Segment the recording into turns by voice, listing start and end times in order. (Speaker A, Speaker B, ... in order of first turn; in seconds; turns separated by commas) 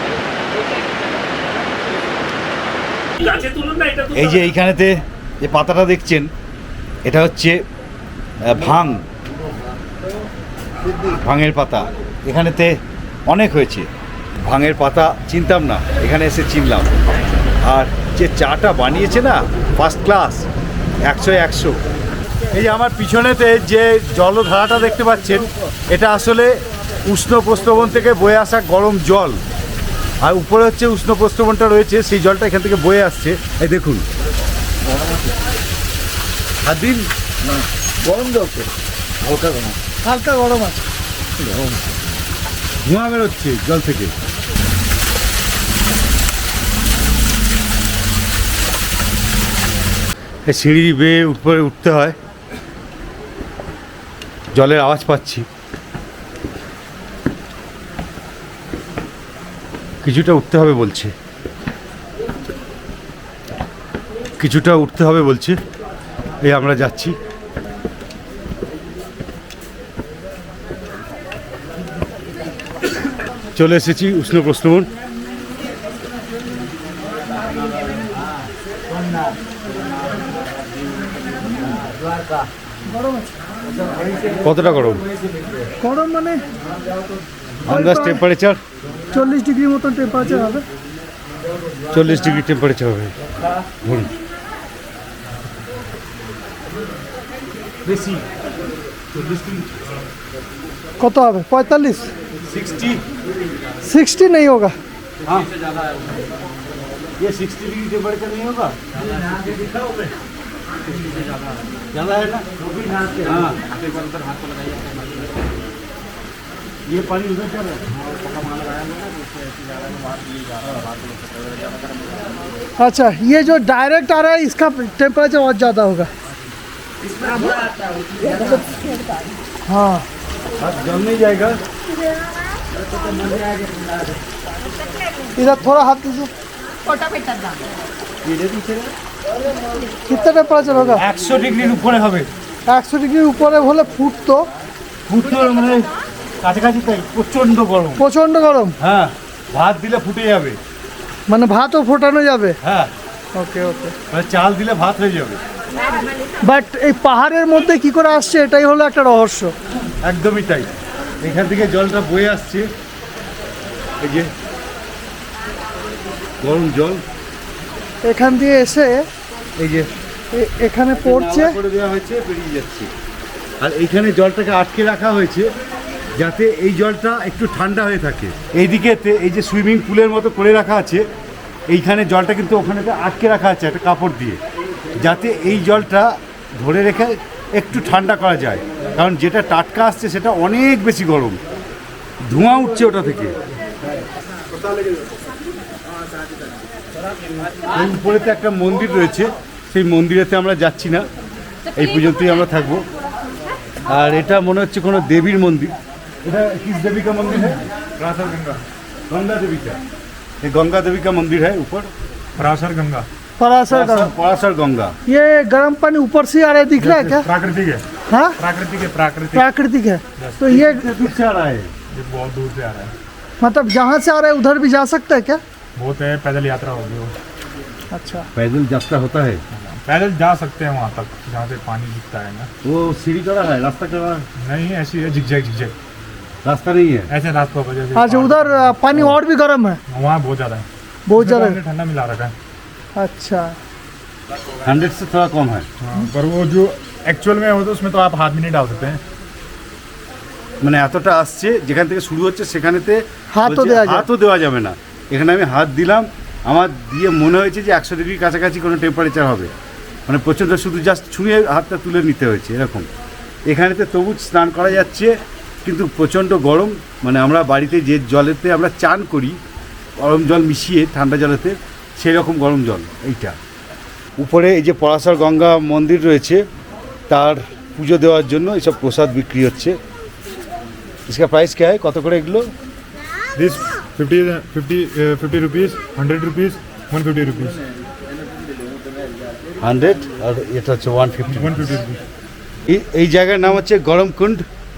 Speaker A: 4.1-6.3, Speaker A: 7.0-7.7, Speaker A: 8.4-9.1, Speaker A: 11.1-13.9, Speaker A: 14.4-16.9, Speaker A: 17.6-20.5, Speaker A: 21.0-21.8, Speaker A: 22.5-29.4, Speaker A: 30.2-34.1, Speaker A: 36.6-37.1, Speaker A: 38.0-38.7, Speaker A: 39.2-39.8, Speaker B: 40.0-40.9, Speaker A: 41.4-41.9, Speaker A: 42.9-44.1, Speaker A: 50.5-52.2, Speaker A: 54.5-55.5, Speaker A: 60.0-61.1, Speaker A: 64.4-65.6, Speaker A: 66.4-67.2, Speaker A: 73.5-74.9, Speaker B: 82.8-83.4, Speaker A: 84.4-85.0, Speaker B: 85.8-86.4, Speaker A: 87.7-88.6, Speaker B: 87.7-88.3, Speaker B: 89.1-90.7, Speaker A: 91.9-93.2, Speaker A: 93.8-94.1, Speaker A: 97.8-98.3, Speaker A: 99.1-99.9, Speaker B: 101.0-102.1, Speaker A: 102.5-103.0, Speaker B: 103.8-104.8, Speaker A: 105.2-105.5, Speaker A: 107.2-108.8, Speaker A: 109.3-110.0, Speaker A: 111.9-113.8, Speaker A: 116.9-117.9, Speaker B: 122.8-126.1, Speaker B: 128.2-129.1, Speaker B: 129.7-130.1, Speaker A: 130.6-131.6, Speaker A: 132.9-134.0, Speaker B: 135.3-136.3, Speaker B: 136.9-137.6, Speaker A: 138.2-138.9, Speaker B: 140.1-141.0, Speaker A: 140.9-142.3, Speaker B: 142.7-144.5, Speaker A: 145.1-145.9, Speaker A: 146.4-148.1, Speaker B: 148.0-148.8, Speaker A: 148.8-150.6, Speaker B: 151.3-152.6, Speaker A: 152.6-152.9, Speaker B: 153.3-154.0, Speaker A: 154.1-155.4, Speaker B: 156.4-159.6, Speaker A: 160.0-162.7, Speaker A: 164.0-164.3, Speaker A: 166.4-167.0, Speaker B: 168.0-169.1, Speaker A: 169.6-169.9, Speaker B: 170.3-171.6, Speaker A: 170.9-172.9, Speaker A: 173.6-175.5, Speaker A: 176.2-181.1, Speaker A: 181.7-184.4, Speaker A: 185.0-191.4, Speaker A: 192.2-193.3, Speaker A: 197.7-201.1, Speaker A: 201.7-202.9, Speaker A: 203.9-207.6, Speaker C: 208.0-208.6, Speaker A: 209.1-209.8, Speaker A: 210.4-211.9, Speaker C: 212.4-213.1, Speaker B: 213.4-214.1, Speaker A: 213.7-215.0, Speaker B: 215.1-217.3, Speaker C: 216.8-217.9, Speaker B: 218.1-218.4, Speaker C: 218.4-219.5, Speaker B: 219.3-221.1, Speaker C: 220.2-220.5, Speaker A: 220.5-221.7, Speaker C: 221.9-222.9, Speaker B: 223.4-225.4, Speaker C: 225.8-227.2, Speaker B: 227.9-228.3, Speaker A: 228.3-229.4, Speaker C: 229.5-232.5, Speaker A: 232.6-234.3, Speaker C: 234.4-235.8, Speaker A: 236.4-237.1, Speaker C: 237.1-238.7, Speaker B: 237.9-239.8, Speaker C: 239.9-242.3, Speaker B: 241.1-241.6, Speaker B: 243.0-243.6, Speaker A: 244.6-245.7, Speaker C: 245.8-249.0, Speaker A: 250.6-259.5, Speaker B: 253.3-254.1, Speaker A: 260.1-262.9, Speaker A: 263.5-269.4, Speaker A: 270.0-273.4, Speaker A: 274.2-276.5, Speaker A: 277.1-279.8, Speaker A: 281.1-282.5, Speaker C: 283.4-287.6, Speaker A: 289.6-291.8, Speaker C: 291.3-292.0, Speaker A: 292.7-294.5